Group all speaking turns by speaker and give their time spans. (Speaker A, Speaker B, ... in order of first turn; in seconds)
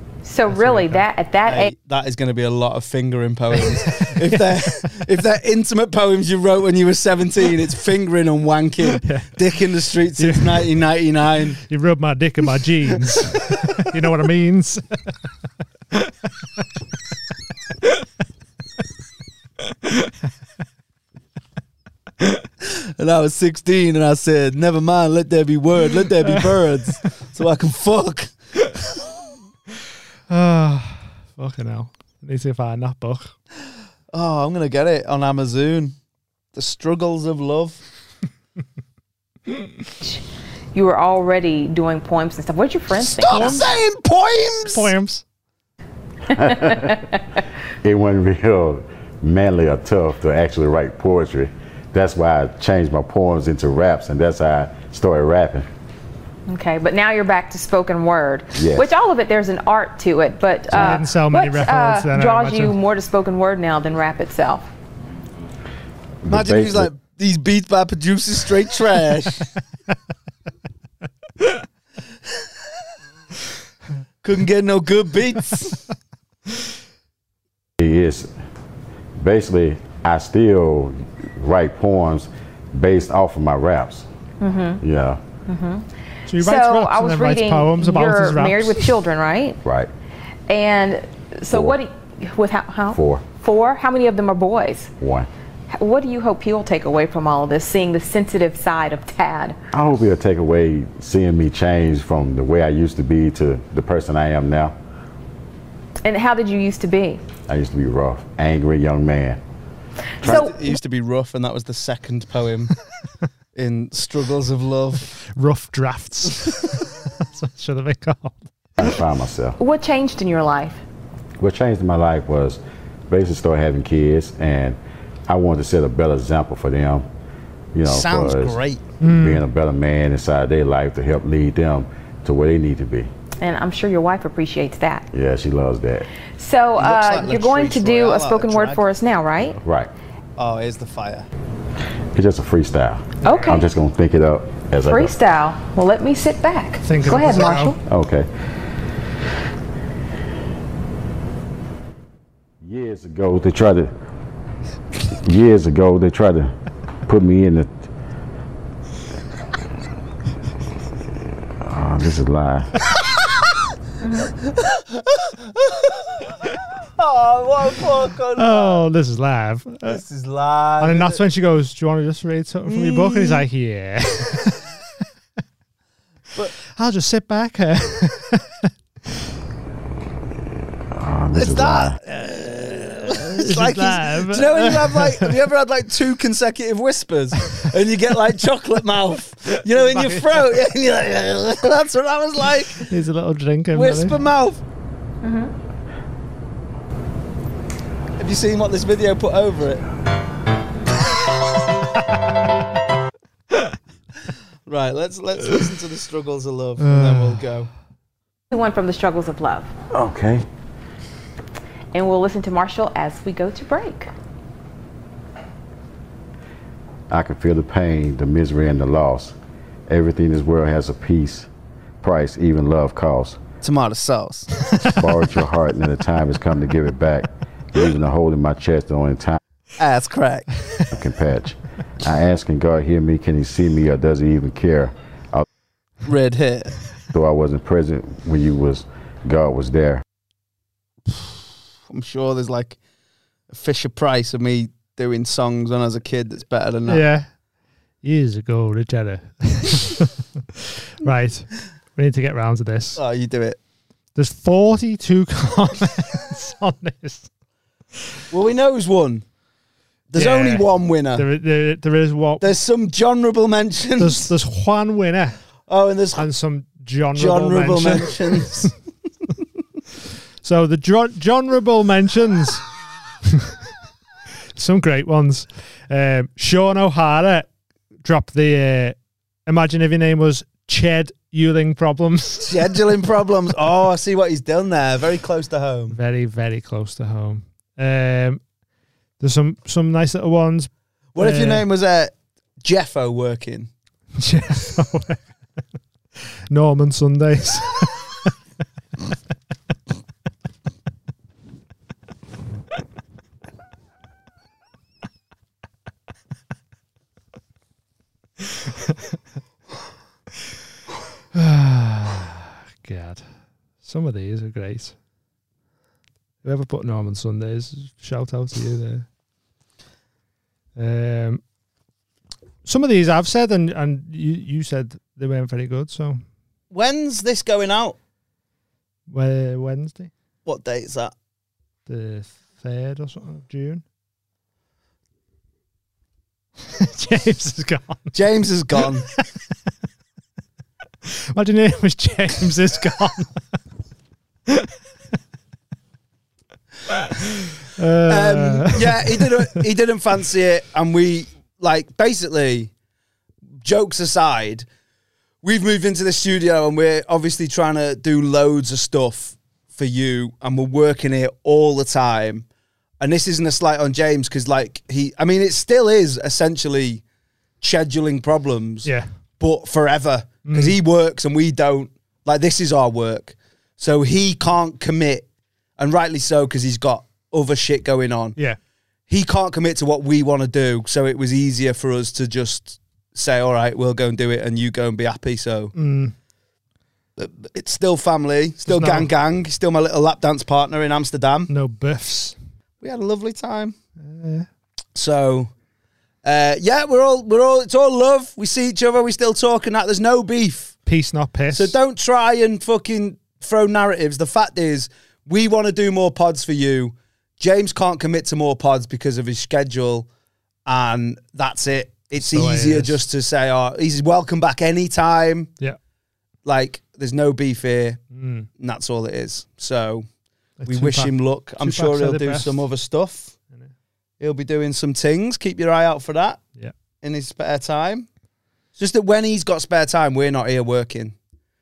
Speaker A: 0.2-1.7, 40.7-43.6, 46.5-47.0, 56.5-64.7, 84.4-84.8, 85.5-89.6, 90.5-94.9, 95.7-99.6, 106.0-107.2, 110.2-110.7, 119.6-120.8, 133.4-135.1, 136.3-139.6, 143.2-143.7, 144.8-147.8, 164.0-164.3, 195.2-195.5, 208.5-209.7, 211.9-214.1
Speaker B: 0.5-1.0, 3.7-4.4, 8.9-9.3, 10.2-10.7, 11.6-14.8, 30.3-33.3, 43.3-43.7, 44.6-45.2, 60.7-62.8, 86.3-88.9, 115.2-118.4, 129.0-129.4, 143.2-143.6, 146.8-147.8, 168.3-170.0, 170.8-174.7, 176.7-178.7, 183.1-185.3, 189.7-190.6, 192.8-194.2, 206.8-207.5, 246.9-247.3, 248.0-250.1, 251.0-253.0, 254.2-257.3, 260.1-262.5, 264.0-265.4, 266.2-268.7, 270.4-272.6, 274.5-277.5, 278.0-282.8, 285.9-288.4, 289.2-291.6, 294.2-295.2, 296.5-298.1, 311.3-314.9, 316.4-319.1, 320.8-321.4, 322.6-326.2, 329.1-330.1, 331.9-333.8, 336.7-338.1, 341.1-343.3, 347.8-349.4, 370.4-370.8, 385.8-386.1, 388.6-389.1, 391.5-392.4, 394.0-394.5, 400.9-401.8, 412.1-413.0, 418.1-418.5, 420.6-422.6
Speaker C: 1.4-11.6, 23.0-28.3, 34.1-35.9, 36.5-37.8, 43.0-44.9, 66.3-69.5, 74.2-75.8, 110.2-112.7, 113.5-115.1, 127.9-128.8, 136.8-138.8, 140.4-141.3, 164.5-166.0, 167.0-168.8, 169.8-171.2, 172.7-173.4, 181.3-192.9, 193.7-194.6, 198.2-199.8, 204.7-207.7, 223.6-224.6, 229.8-230.5, 236.0-236.7, 241.1-242.8, 243.5-247.0, 252.9-253.6, 258.3-259.2, 260.1-261.2, 262.4-264.3, 265.7-266.3, 267.1-268.7, 282.4-286.0, 291.1-293.7, 326.7-327.9, 330.4-331.1, 338.1-339.1, 348.1-352.7, 353.6-354.6, 355.4-362.4, 363.0-367.0, 367.6-375.3, 375.8-378.4, 379.1-385.7, 387.2-391.5, 392.8-393.8, 394.9-395.5, 396.2-400.8, 401.5-410.1, 410.6-415.5, 416.4-418.0, 418.6-420.1, 420.7-423.3, 424.2-426.4, 427.0-428.1, 428.8-431.1
Speaker D: 46.3-47.0, 47.8-55.7, 58.5-58.9, 66.2-66.9, 77.8-78.3, 79.2-84.0, 84.8-85.2, 89.6-89.9, 92.9-93.3, 95.0-95.3, 99.7-104.7, 107.5-109.4, 118.8-119.6, 121.4-127.0, 127.7-133.1, 135.1-136.1, 139.6-139.9, 142.1-145.1, 147.8-148.3, 152.6-153.9, 155.2-156.5, 157.1-157.9, 161.6-162.7, 180.9-182.0, 209.9-210.4, 217.1-219.3, 219.9-221.5, 222.0-223.4, 224.9-229.4, 230.9-235.4, 237.1-240.0